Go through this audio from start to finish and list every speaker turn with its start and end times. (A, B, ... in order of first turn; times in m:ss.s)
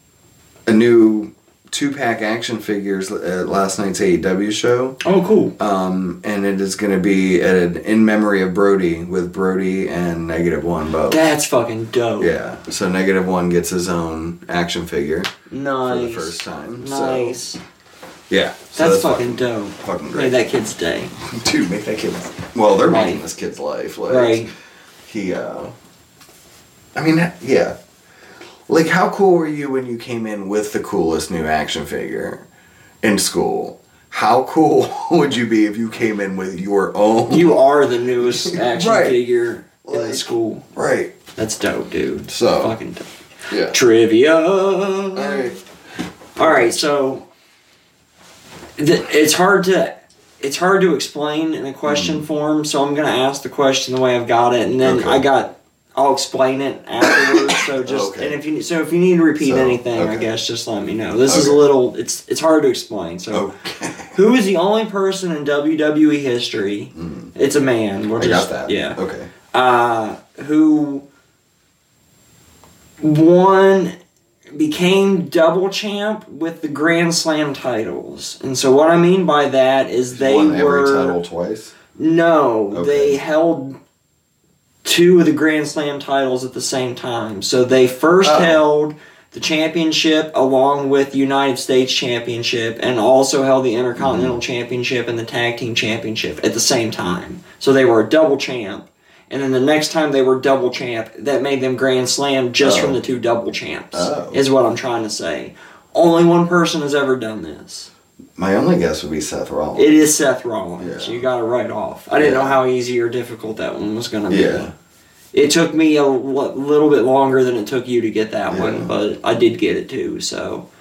0:00.7-0:05.0 A
0:05.0-0:05.5 B
0:05.6-0:11.3 A
0:11.1-0:12.3 B
0:12.2-0:15.3 A
0:15.5-0:17.6 B
0:15.8-0:17.4 A
0:18.3-0:20.4 A
0:18.8-0:21.1 B
0:21.2-0:24.5 A
0:22.8-0:23.2 B
0:24.1-0:24.5 B
0:25.1-0:25.7 A
0:27.0-0:27.8 A
0:28.7-0:32.4 A
0:33.0-0:37.6 A
0:37.3-0:40.6 B
0:38.2-0:39.2 A
0:39.8-0:41.1 A
0:41.4-0:43.1 B
0:42.3-0:42.8 A
0:43.5-0:43.8 A
0:43.6-0:45.5 B
0:45.2-0:45.6 A
0:46.4-0:47.3 B
0:46.4-0:46.7 A
0:48.8-1:03.5 B
0:51.8-0:52.3 A
0:54.8-0:55.2 A
0:57.0-0:58.4 A
0:59.4-1:00.3 A
1:01.3-1:01.7 A
1:03.3-1:04.2 A
1:04.1-1:09.0 B
1:06.9-1:07.3 A
1:08.2-1:09.3 A
1:09.5-1:11.0 B
1:13.0-1:14.0 B
1:14.5-1:21.2 B
1:20.1-1:21.8 A
1:22.0-1:23.8 B
1:22.7-1:23.2 A
1:24.8-1:47.9 B
1:28.2-1:28.6 A
1:34.0-1:34.4 A
1:42.6-1:43.0 A
1:43.9-1:44.4 A
1:48.4-1:50.1 A
1:49.8-1:54.7 B
1:50.8-1:51.3 A
1:52.2-1:52.6 A
1:54.3-1:54.7 A
1:55.3-2:00.7 B
1:58.5-1:58.9 A